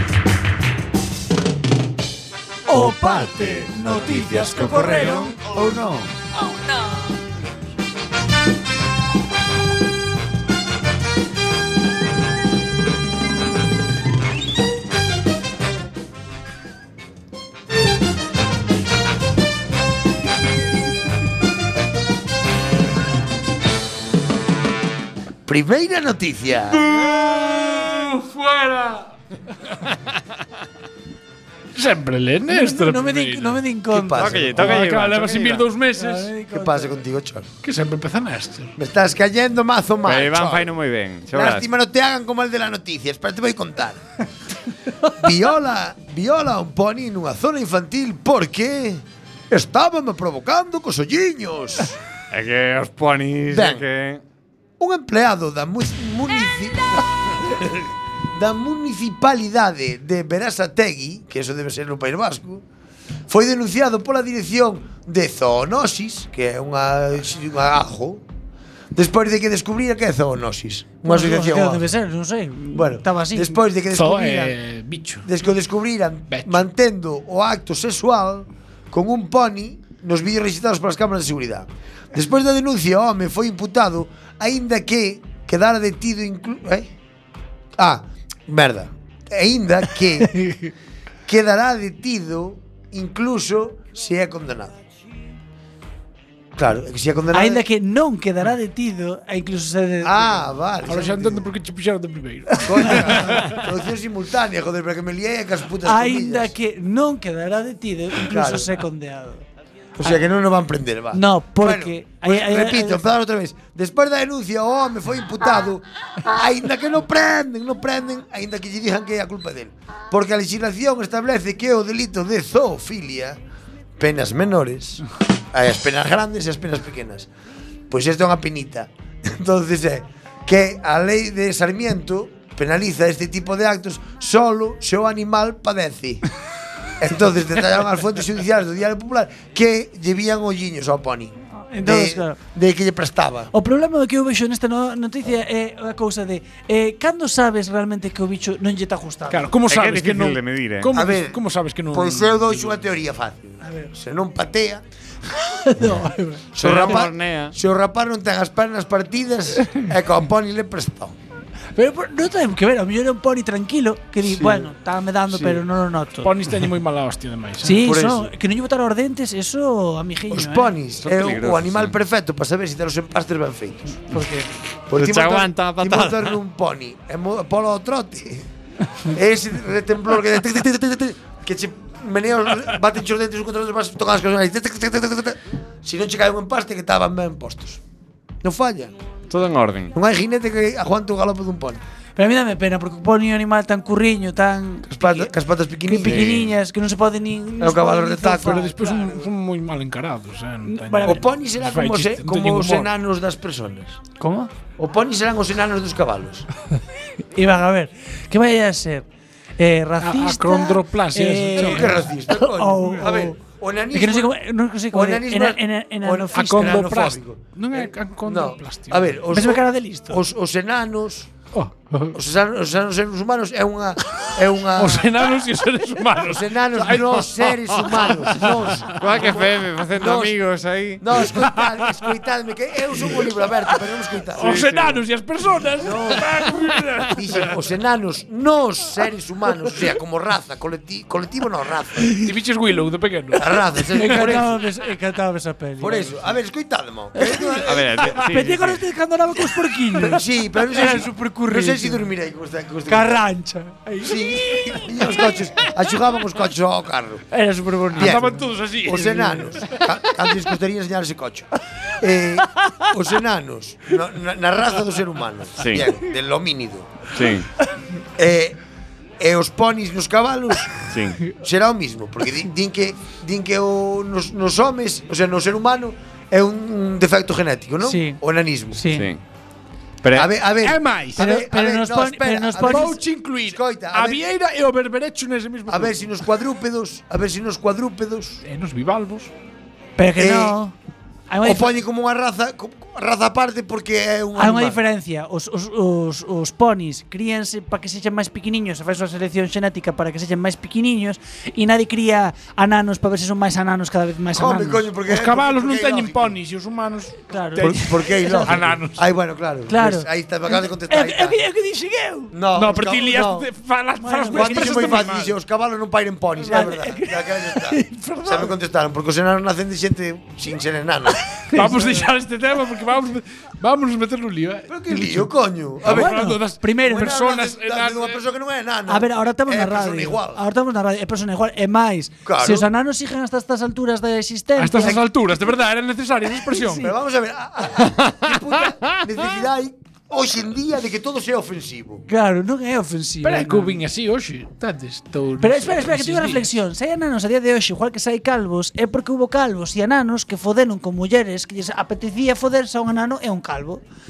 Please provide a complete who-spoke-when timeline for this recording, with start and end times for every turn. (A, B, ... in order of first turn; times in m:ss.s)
0:02.7-0:05.4 A
0:04.4-0:05.3 B
0:25.4-0:26.8 C
0:26.9-0:29.1 D
0:31.8-0:33.6 D
0:32.5-0:34.5 A
0:33.9-0:34.8 C
0:34.1-0:35.7 B
0:34.6-0:36.3 D
0:36.0-0:37.0 A
0:36.5-0:37.5 C
0:37.6-0:38.7 D
0:38.8-0:40.8 C
0:40.0-0:41.7 B
0:41.3-0:44.0 C
0:45.1-0:52.0 C
0:52.3-0:54.2 B
0:53.5-0:53.8 C
0:54.8-1:02.6 C
1:03.3-1:08.2 C
1:08.9-1:11.9 C
1:11.0-1:13.6 A
1:12.7-1:14.6 C
1:13.9-1:15.3 D
1:15.2-1:26.9 C
1:16.3-1:16.6 D
1:27.8-1:30.4 C
1:31.3-1:34.8 C
1:36.6-1:37.6 C
1:37.3-1:40.3 A
1:40.0-1:41.5 C
1:40.9-1:43.6 D
1:42.6-1:43.0 A
1:42.6-1:46.5 C
1:45.8-1:49.4 A
1:48.2-1:48.8 C
1:50.0-2:03.4 C
1:51.1-1:53.0 A
2:04.0-2:07.3 C
2:07.9-2:16.3 C
2:17.0-2:23.5 C
2:21.7-2:22.4 A
2:23.5-2:29.5 A
2:29.3-2:32.8 D
2:29.7-2:31.0 B
2:30.9-2:34.8 C
2:33.6-2:33.9 A
2:35.4-2:36.5 A
2:36.6-2:37.6 B
2:36.6-2:41.2 C
2:41.8-2:46.3 A
2:44.3-2:44.7 C
2:46.2-2:47.8 D
2:47.6-2:50.7 A
2:47.8-2:48.3 C
2:50.3-2:54.0 C
2:51.0-2:52.0 B
2:54.1-2:54.5 A
2:54.9-2:58.5 C
2:54.9-2:56.4 B
2:59.0-3:07.8 C
3:08.4-3:08.9 C
3:09.3-3:10.0 B
3:09.9-3:11.8 C
3:12.2-3:15.3 A
3:14.9-3:16.5 C
3:15.9-3:18.8 A
3:16.0-3:16.6 B
3:17.6-3:19.1 C
3:18.4-3:22.9 D
3:20.6-3:21.2 A
3:21.0-3:24.0 C
3:24.2-3:24.5 A
3:24.8-3:26.5 C
3:27.4-3:29.0 A
3:29.6-3:33.4 A
3:30.0-3:32.0 D
3:31.6-3:34.4 C
3:33.9-3:37.0 A
3:34.9-3:41.4 C
3:36.4-3:39.2 D
3:39.3-3:40.2 A
3:41.5-3:42.2 D
3:42.1-3:45.1 C
3:44.8-3:48.8 D
3:46.2-3:50.4 C
3:48.9-3:51.3 B
3:51.0-3:54.6 C
3:51.3-3:52.0 D
3:54.4-3:57.5 D
3:54.4-3:55.0 B
3:55.8-3:56.3 C
3:57.1-4:02.1 C
4:02.2-4:04.4 D
4:03.4-4:04.6 C
4:03.9-4:06.3 A
4:05.8-4:08.1 C
4:07.2-4:12.1 A
4:07.6-4:08.9 B
4:09.9-4:13.2 C
4:12.9-4:15.3 A
4:14.0-4:17.2 C
4:17.3-4:18.3 A
4:18.0-4:19.6 D
4:18.0-4:27.0 C
4:25.6-4:25.9 B
4:27.1-4:27.5 B
4:28.2-4:28.6 C
4:29.2-4:38.8 C
4:30.9-4:31.2 B
4:37.8-4:38.2 A
4:38.7-4:39.1 A
4:38.9-4:39.2 B
4:40.0-4:40.4 B
4:40.1-4:44.2 C
4:40.6-4:41.2 D
4:41.2-4:43.0 A
4:42.6-4:46.1 D
4:45.7-4:48.4 C
4:48.4-4:49.3 D
4:50.0-4:50.8 A
4:50.2-4:50.6 C
4:51.3-4:51.8 A
4:51.4-4:54.8 C
4:54.4-5:04.9 A
5:04.3-5:06.4 C
5:05.1-5:07.8 D
5:07.3-5:08.6 A
5:07.6-5:11.4 C
5:08.4-5:09.0 D
5:09.7-5:12.3 A
5:12.3-5:13.5 C
5:12.5-5:15.3 D
5:14.0-5:15.1 A
5:14.3-5:21.2 C
5:16.4-5:18.6 A
5:21.5-5:22.1 A
5:21.5-5:25.3 D
5:24.7-5:26.3 C
5:25.8-5:27.2 A
5:25.8-5:28.2 D
5:26.8-5:30.4 C
5:28.9-5:35.0 A
5:32.2-5:32.7 C
5:34.6-5:36.9 D
5:34.8-5:35.1 C
5:36.5-5:36.9 A
5:36.7-5:42.1 C
5:38.0-5:38.3 B
5:42.1-5:43.8 A
5:43.2-5:46.5 D
5:45.4-5:53.8 A